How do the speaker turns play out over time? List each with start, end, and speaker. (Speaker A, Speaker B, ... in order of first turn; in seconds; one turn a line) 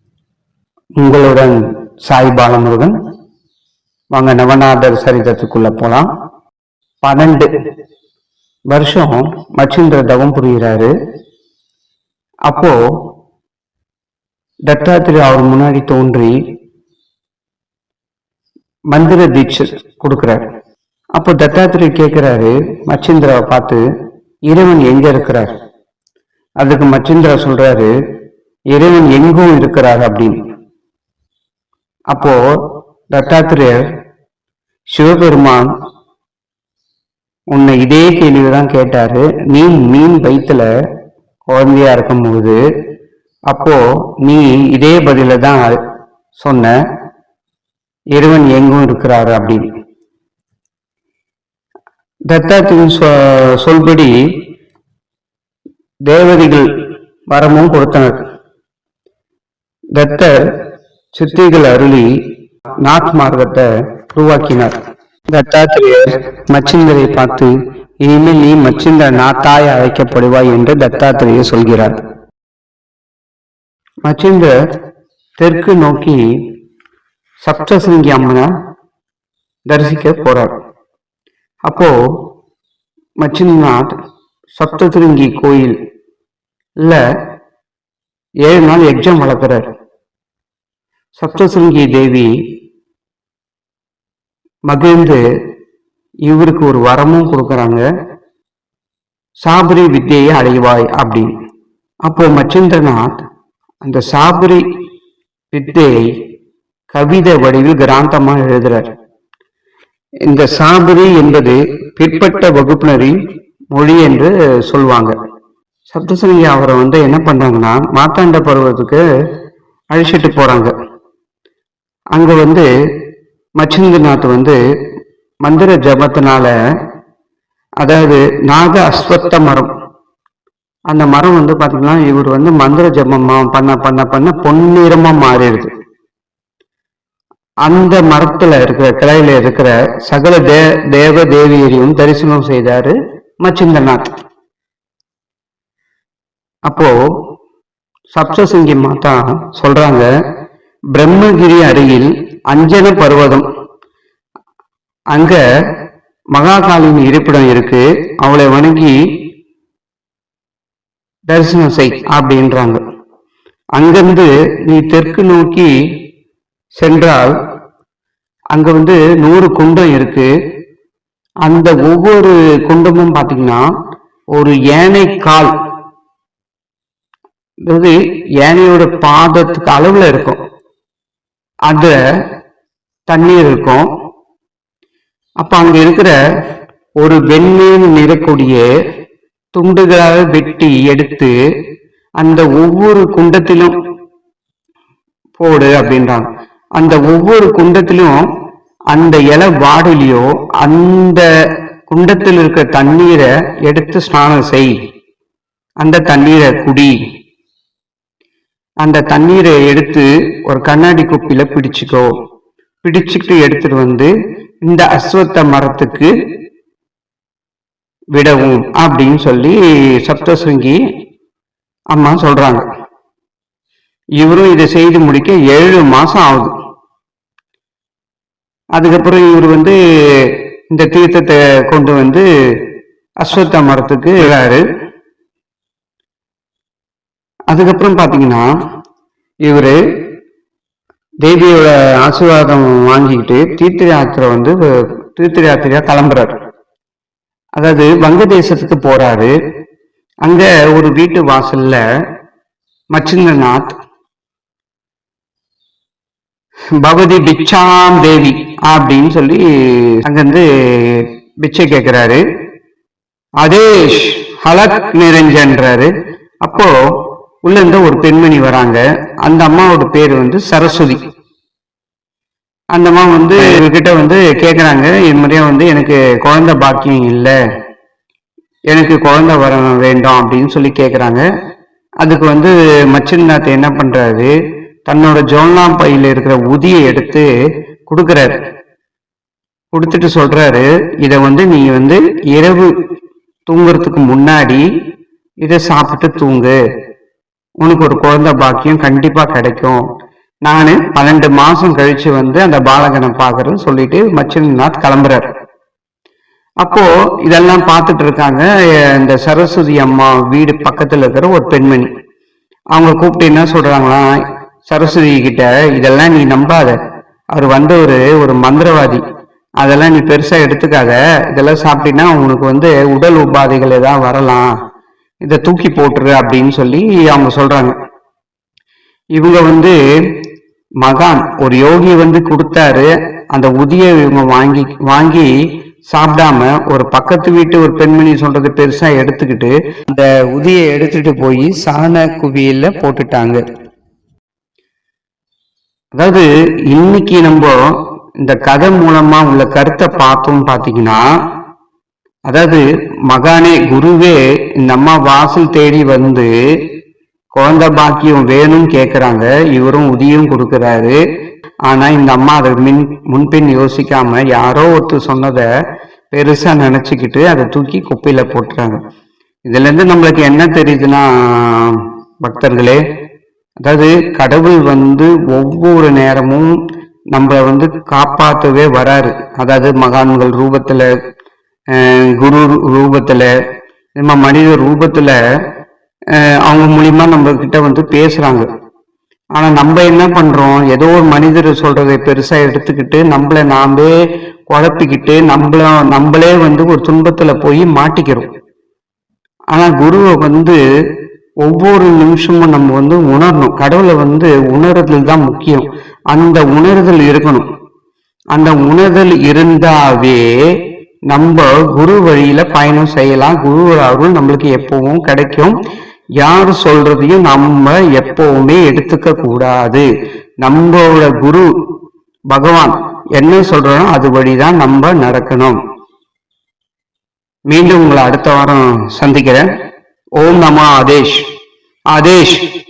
Speaker A: 1.0-3.0
Speaker A: 4.1-6.1
Speaker A: 7.0-7.5
Speaker A: 8.7-10.9
Speaker A: 12.5-12.8
Speaker A: 14.7-16.4
Speaker A: 18.9-20.4
Speaker A: 21.1-23.8
Speaker A: 24.5-25.5
Speaker A: 26.6-27.9
Speaker A: 28.7-30.4
Speaker A: 32.1-32.4
Speaker A: 33.1-33.9
Speaker A: 34.9-35.7
Speaker A: 37.5-40.7
Speaker A: 41.5-42.6
Speaker A: 43.5-45.8
Speaker A: 46.4-46.8
Speaker A: 48.2-49.7
Speaker A: 52.3-54.2
Speaker A: 56.1-56.7
Speaker A: 57.3-58.2
Speaker A: 60.0-60.5
Speaker A: 61.1-62.1
Speaker A: 62.8-72.0
Speaker A: 74.0-74.5
Speaker A: 75.4-76.2
Speaker A: 77.4-78.5
Speaker A: 79.7-80.5
Speaker A: 81.7-82.0
Speaker A: 83.2-83.9
Speaker A: 84.6-85.8
Speaker A: 88.5-89.7
Speaker A: 91.2-92.3
Speaker A: 94.7-95.2
Speaker A: 96.3-97.9
Speaker A: 99.4-101.3
Speaker A: 102.1-103.1
Speaker A: 103.8-104.7
Speaker A: 105.5-106.1
Speaker A: 106.9-108.9
Speaker A: 110.3-113.2
Speaker A: 113.7-115.2
Speaker A: 115.9-119.0
Speaker A: 119.9-120.7
Speaker A: 122.1-122.7
Speaker A: 123.6-124.6
Speaker A: 125.5-126.5
Speaker A: 127.8-129.7
Speaker A: 130.9-135.7
Speaker A: 137.7-144.2
Speaker A: 146.7-147.0
Speaker A: 148.1-150.1
Speaker A: 150.9-153.5
Speaker A: 155.1-155.4
Speaker A: 156.3-159.0
Speaker A: 161.3-162.8
Speaker A: 163.8-165.7
Speaker A: 166.8-167.4
Speaker A: 168.5-170.3
Speaker A: 171.4-173.7
Speaker A: 174.3-175.5
Speaker A: 177.7-180.4
Speaker A: 181.7-182.0
Speaker A: 183.1-183.9
Speaker A: 185.4-186.2
Speaker A: 187.0-188.7
Speaker A: 189.5-191.3
Speaker A: 192.2-193.7
Speaker A: 195.4-196.3
Speaker A: 196.8-198.2
Speaker A: 198.9-201.3
Speaker A: 201.9-204.7
Speaker A: 205.8-206.9
Speaker A: 208.8-212.1
Speaker A: 212.8-214.1
Speaker A: 214.7-216.1
Speaker A: 218.2-220.8
Speaker A: 221.9-222.7
Speaker A: 224.2-226.5
Speaker A: 228.8-232.3
Speaker A: 233.2-234.7
Speaker A: 237.5-238.5
Speaker A: 239.4-239.8
Speaker A: 241.2-246.4
Speaker A: 247.6-249.3
Speaker A: 250.2-251.8
Speaker A: 252.9-253.8
Speaker A: 256.8-262.2
Speaker A: 263.4-265.9
Speaker A: 266.4-266.8
Speaker A: 267.4-271.0
Speaker A: 272.7-277.4
Speaker A: 278.7-281.2
Speaker A: 282.0-284.3
Speaker A: 284.9-287.3
Speaker A: 287.9-288.4
Speaker A: 289.7-292.7
Speaker A: 293.5-294.7
Speaker A: 295.4-296.6
Speaker A: 297.6-299.8
Speaker A: 300.4-305.3
Speaker A: 306.6-311.9
Speaker A: 312.7-316.8
Speaker A: 317.3-319.0
Speaker A: 319.6-324.5
Speaker A: 325.2-327.8
Speaker A: 329.1-329.8
Speaker A: 330.8-335.3
Speaker A: 335.9-343.4
Speaker A: 345.9-351.1
Speaker A: 352.3-356.3
Speaker A: 357.3-361.0
Speaker A: 361.7-365.5
Speaker A: 366.1-368.8
Speaker A: 369.5-372.8
Speaker A: 373.6-376.6
Speaker A: 377.1-380.9
Speaker A: 381.7-383.3
Speaker A: 384.0-385.2
Speaker A: 386.1-388.5
Speaker A: 389.4-393.9
Speaker A: 394.5-398.3
Speaker A: 399.5-400.6
Speaker A: 401.4-407.5
Speaker A: 408.3-410.6
Speaker A: 411.1-415.6
Speaker A: 416.2-419.9
Speaker A: 420.4-421.5
Speaker A: 422.3-425.6
Speaker A: 427.5-429.5
Speaker A: 430.2-431.3
Speaker A: 431.9-432.4